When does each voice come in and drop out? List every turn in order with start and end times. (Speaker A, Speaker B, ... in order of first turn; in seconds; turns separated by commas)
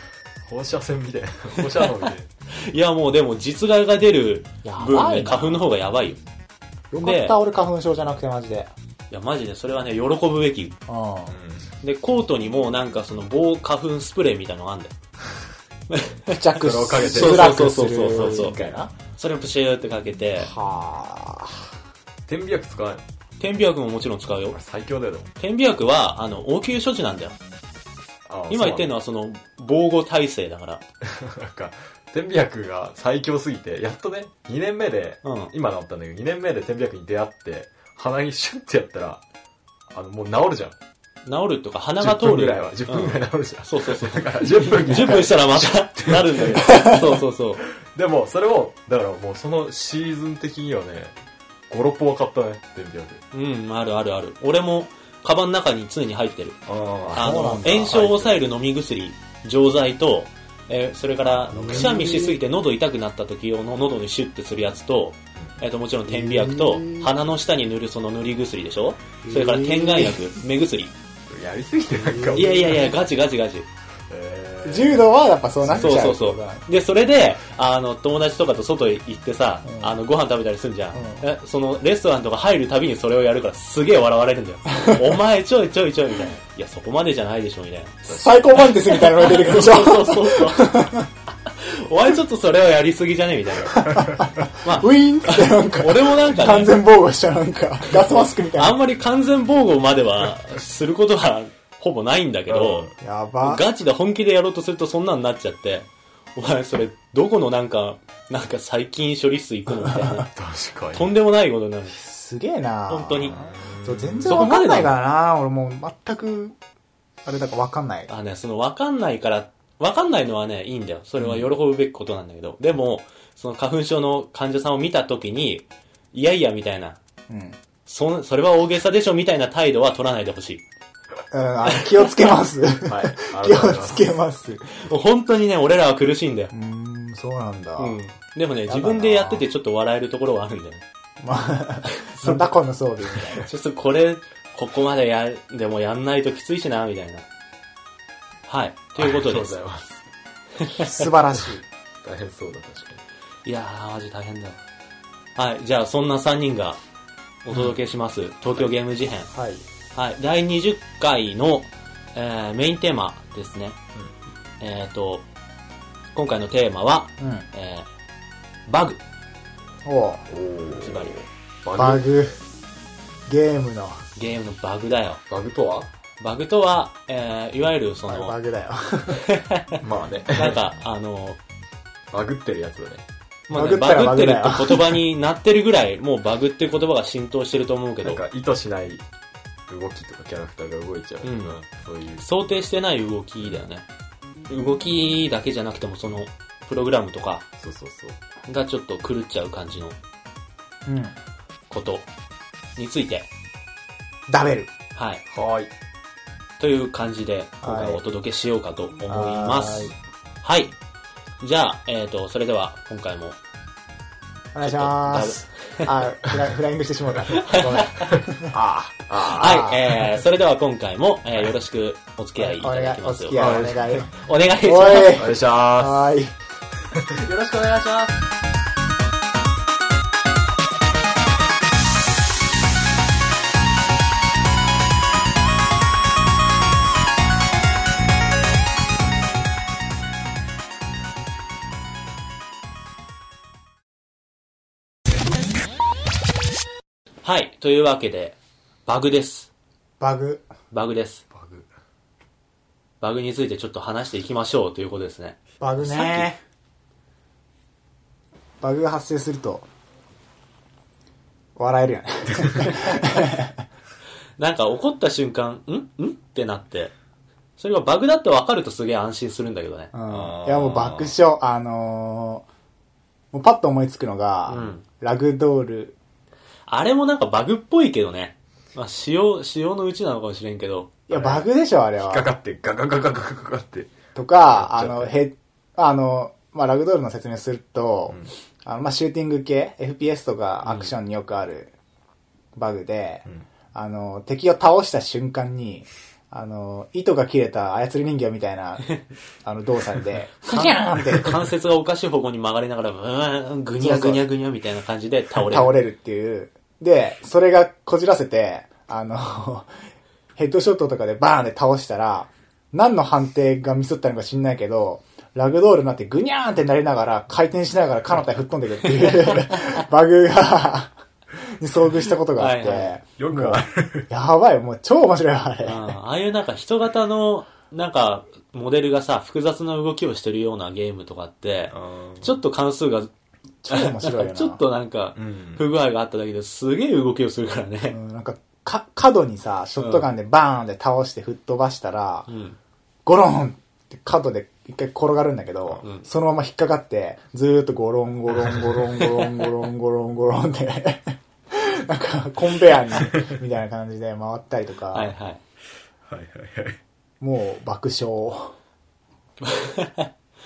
Speaker A: 0.5-2.3, Speaker B: 2.5-6.2, Speaker C: 4.6-5.6, Speaker C: 6.9-8.7, Speaker B: 7.0-7.4, Speaker B: 9.1-10.8, Speaker C: 10.9-11.4, Speaker A: 11.3-11.7, Speaker B: 11.8-14.9, Speaker B: 15.9-16.4, Speaker C: 16.3-18.9, Speaker A: 16.6-18.9, Speaker B: 16.9-18.6, Speaker B: 19.2-20.5, Speaker C: 20.4-21.7, Speaker A: 22.3-23.0, Speaker B: 23.4-24.6, Speaker A: 24.5-25.3, Speaker B: 25.4-27.4, Speaker A: 28.3-28.9, Speaker B: 28.5-30.8, Speaker A: 31.0-39.2, Speaker B: 35.2-35.5, Speaker A: 39.9-40.8, Speaker B: 41.3-47.6, Speaker A: 42.0-47.1, Speaker A: 47.6-51.1, Speaker A: 51.7-53.2, Speaker B: 53.3-56.6, Speaker A: 56.7-58.4, Speaker C: 57.1-58.0, Speaker B: 57.1-70.9, Speaker A: 61.5-62.0, Speaker C: 61.6-62.4, Speaker C: 66.1-67.1, Speaker C: 69.2-70.2, Speaker A: 71.3-72.9, Speaker C: 72.0-73.0, Speaker B: 72.3-73.7, Speaker A: 74.1-75.1, Speaker C: 74.6-76.7, Speaker A: 75.6-76.0, Speaker B: 75.8-90.9, Speaker C: 79.7-80.0, Speaker C: 80.9-81.2, Speaker C: 88.1-91.1, Speaker A: 88.1-88.4, Speaker B: 91.5-94.1, Speaker C: 93.7-98.8, Speaker A: 94.0-94.2, Speaker B: 94.6-96.8, Speaker B: 98.5-102.9, Speaker A: 102.5-102.9, Speaker C: 103.0-103.6, Speaker B: 103.4-110.3, Speaker C: 109.8-110.2, Speaker A: 110.3-111.1, Speaker B: 110.9-112.0, Speaker C: 111.9-116.6, Speaker B: 112.9-113.3, Speaker A: 113.3-114.4, Speaker B: 114.3-115.0, Speaker C: 117.2-118.1, Speaker B: 118.1-127.0, Speaker C: 127.3-127.6, Speaker B: 127.9-130.6, Speaker C: 131.3-134.7, Speaker B: 131.7-132.1, Speaker A: 132.8-134.2, Speaker B: 134.7-136.5, Speaker C: 136.5-138.0, Speaker B: 137.8-140.8, Speaker C: 138.7-139.4, Speaker C: 141.2-143.5, Speaker B: 141.9-142.5, Speaker B: 143.4-147.3, Speaker B: 148.5-149.6, Speaker A: 149.0-150.0, Speaker B: 150.6-150.9, Speaker C: 150.8-151.6, Speaker A: 151.0-153.0, Speaker B: 153.4-154.6, Speaker B: 155.4-156.8, Speaker B: 157.4-159.3, Speaker C: 159.3-159.6, Speaker B: 159.9-163.8, Speaker B: 164.6-165.3, Speaker B: 166.1-167.9, Speaker C: 167.2-167.5, Speaker B: 168.7-169.0, Speaker C: 169.8-170.2, Speaker A: 170.3-172.2, Speaker B: 170.8-171.2, Speaker C: 171.7-172.4, Speaker C: 173.3-174.1, Speaker B: 174.2-175.2, Speaker A: 175.3-175.9, Speaker B: 176.2-178.4, Speaker C: 178.1-179.3, Speaker B: 179.2-179.8, Speaker A: 179.8-180.6, Speaker B: 180.3-181.4, Speaker A: 182.1-183.0, Speaker B: 183.5-188.2, Speaker C: 183.5-185.0, Speaker A: 188.0-189.0, Speaker A: 189.7-192.2, Speaker B: 191.2-191.6, Speaker B: 192.2-193.8, Speaker B: 194.5-197.5, Speaker A: 197.6-198.2, Speaker B: 198.5-200.0, Speaker C: 200.9-201.2, Speaker B: 201.7-202.1, Speaker B: 202.8-203.3, Speaker C: 204.3-204.7, Speaker B: 204.9-205.2, Speaker A: 205.3-205.7, Speaker B: 206.6-210.8, Speaker C: 207.6-208.0, Speaker C: 209.1-209.9, Speaker B: 211.4-213.4, Speaker C: 214.5-218.6, Speaker B: 214.6-216.0, Speaker A: 217.2-220.1, Speaker B: 217.3-218.1, Speaker B: 219.2-225.2, Speaker C: 219.3-219.8, Speaker C: 222.4-224.1, Speaker A: 223.3-224.1, Speaker C: 224.6-226.3, Speaker A: 225.1-226.1, Speaker B: 227.1-228.2, Speaker B: 247.2-249.5, Speaker C: 250.0-250.5, Speaker B: 250.7-251.2, Speaker A: 251.3-251.7, Speaker B: 253.0-256.3, Speaker C: 255.6-256.4, Speaker C: 258.6-259.7, Speaker C: 261.6-263.6, Speaker B: 262.6-263.0, Speaker B: 264.4-266.9, Speaker B: 267.6-269.9, Speaker C: 269.9-272.5, Speaker A: 270.1-271.1, Speaker C: 273.3-276.0, Speaker B: 274.5-274.8, Speaker B: 276.7-280.9, Speaker C: 281.1-282.3, Speaker A: 281.1-284.0, Speaker C: 284.1-291.7, Speaker A: 284.5-285.1, Speaker B: 290.6-290.9, Speaker C: 292.6-301.4, Speaker B: 300.4-305.7, Speaker C: 303.8-304.2, Speaker C: 305.4-309.7, Speaker C: 310.4-325.9, Speaker B: 322.4-322.9, Speaker A: 323.2-324.1, Speaker B: 325.6-333.1, Speaker A: 331.7-332.4, Speaker C: 333.6-334.6, Speaker B: 333.7-338.0, Speaker A: 335.2-335.6, Speaker C: 337.9-342.3, Speaker B: 339.8-340.1, Speaker B: 342.3-342.6, Speaker C: 343.1-355.1, Speaker B: 345.8-346.1, Speaker A: 348.4-349.0, Speaker B: 354.9-355.4, Speaker A: 356.1-356.8, Speaker C: 357.2-358.6, Speaker B: 359.4-360.1